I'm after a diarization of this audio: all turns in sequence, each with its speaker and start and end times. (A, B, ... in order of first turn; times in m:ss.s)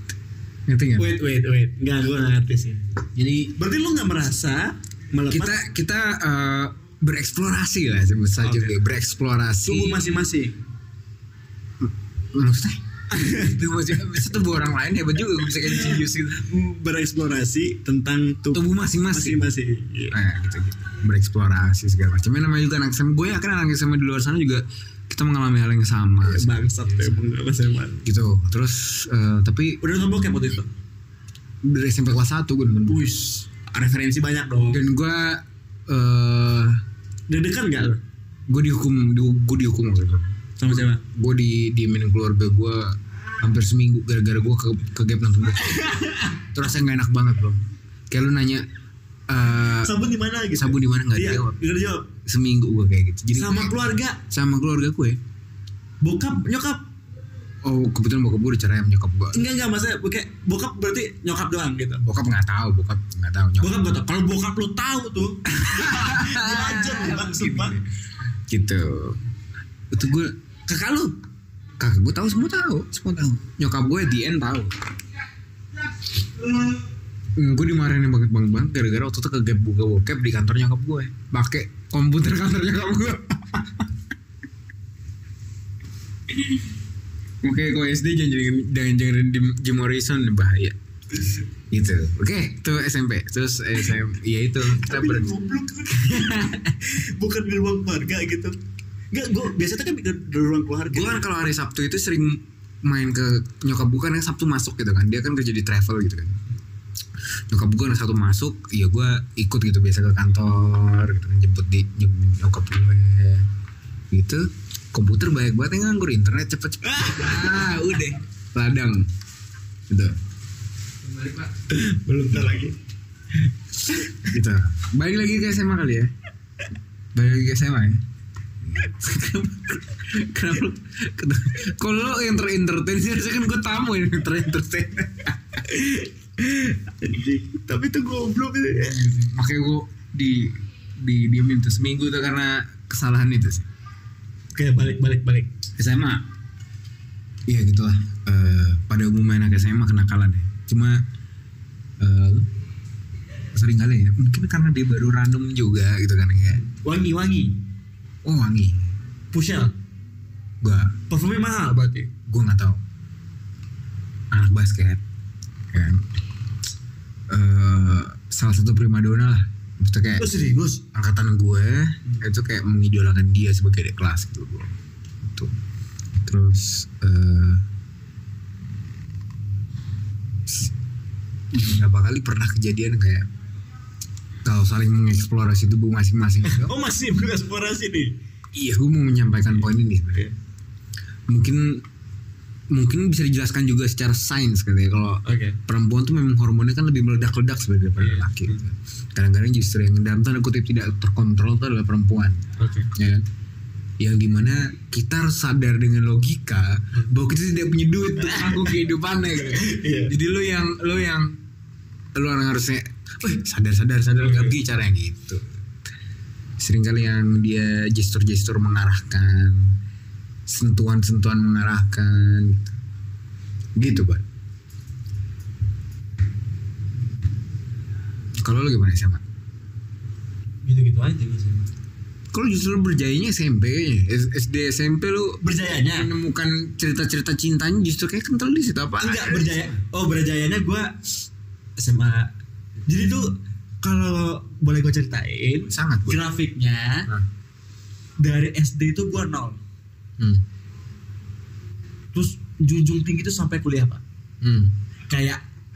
0:00.7-0:01.1 A
0:01.0-0:02.8 B
0:03.1-0:03.5 A
0:03.6-0:05.5 B
0:05.3-0:10.0 A
0:08.4-0:08.7 B
0:09.6-0:10.6 B
0:11.8-0:16.4 A
0:13.1-0:13.5 B
0:15.6-0:20.2 B
0:18.5-0:19.5 A
0:20.1-0:27.2 A
0:26.2-0:28.0 B
0:28.0-0:29.8 A
0:29.8-0:30.7 B
0:31.6-0:33.0 A
0:32.9-0:34.8 B
0:34.7-0:36.8 A
0:37.3-0:38.0 B
0:38.5-0:48.6 A
0:40.6-0:41.0 B
0:45.6-0:46.3 B
0:49.3-0:49.9 A
0:49.8-0:52.1 B
0:50.5-0:51.6 A
0:52.2-0:55.2 A
0:53.3-0:54.2 B
0:56.0-0:56.8 B
0:57.6-0:59.4 A
0:59.3-1:02.0 B
1:02.0-1:03.8 A
1:03.6-1:07.8 B
1:05.6-1:07.8 A
1:08.5-1:09.2 A
1:09.9-1:10.3 A
1:10.7-1:11.1 B
1:11.8-1:14.8 A
1:17.4-1:23.9 A
1:26.3-1:26.6 A
1:27.4-1:30.8 A
1:31.7-1:35.3 A
1:34.6-1:38.6 B
1:35.9-1:36.7 A
1:39.1-1:41.2 B
1:40.9-1:46.4 A
1:47.5-1:53.5 A
1:54.1-1:59.1 A
1:56.8-1:57.7 B
1:59.9-2:00.2 A
2:01.0-2:01.5 A
2:01.7-2:02.7 B
2:03.9-2:04.2 B
2:04.3-2:06.1 A
2:07.1-2:08.0 A
2:08.6-2:15.4 A
2:15.6-2:19.0 B
2:18.8-2:23.6 A
2:24.5-2:25.5 B
2:25.8-2:26.2 A
2:27.5-2:31.0 A
2:32.0-2:32.5 A
2:33.5-2:36.6 A
2:36.6-2:37.6 B
2:38.2-2:38.9 A
2:39.3-2:39.7 B
2:40.6-2:40.9 A
2:41.1-2:42.1 B
2:42.3-2:42.8 A
2:44.3-2:45.0 A
2:45.7-2:46.0 A
2:47.3-2:50.2 A
2:50.2-2:50.8 B
2:50.9-2:55.5 A
2:56.2-2:57.6 A
3:00.4-3:00.7 A
3:01.5-3:03.3 A
3:04.4-3:06.7 A
3:06.4-3:08.2 B
3:08.5-3:10.3 A
3:11.3-3:11.8 A
3:12.7-3:22.4 A
3:15.2-3:15.6 B
3:18.0-3:18.6 B
3:22.6-3:22.9 B
3:22.9-3:23.2 A
3:24.0-3:31.4 A
3:28.3-3:28.6 B
3:29.5-3:30.1 B
3:32.1-3:35.5 A
3:34.2-3:34.6 B
3:36.6-3:39.7 A
3:40.5-3:42.7 A
3:43.8-3:44.2 A
3:48.4-3:49.2 A
3:50.6-3:51.6 B
3:52.3-3:59.7 A
3:55.4-3:56.1 B
3:59.0-4:01.0 B
4:01.8-4:02.3 B
4:02.9-4:07.1 B
4:05.7-4:06.2 A
4:08.2-4:09.6 B
4:12.1-4:14.0 B
4:14.4-4:14.7 A
4:15.1-4:15.4 B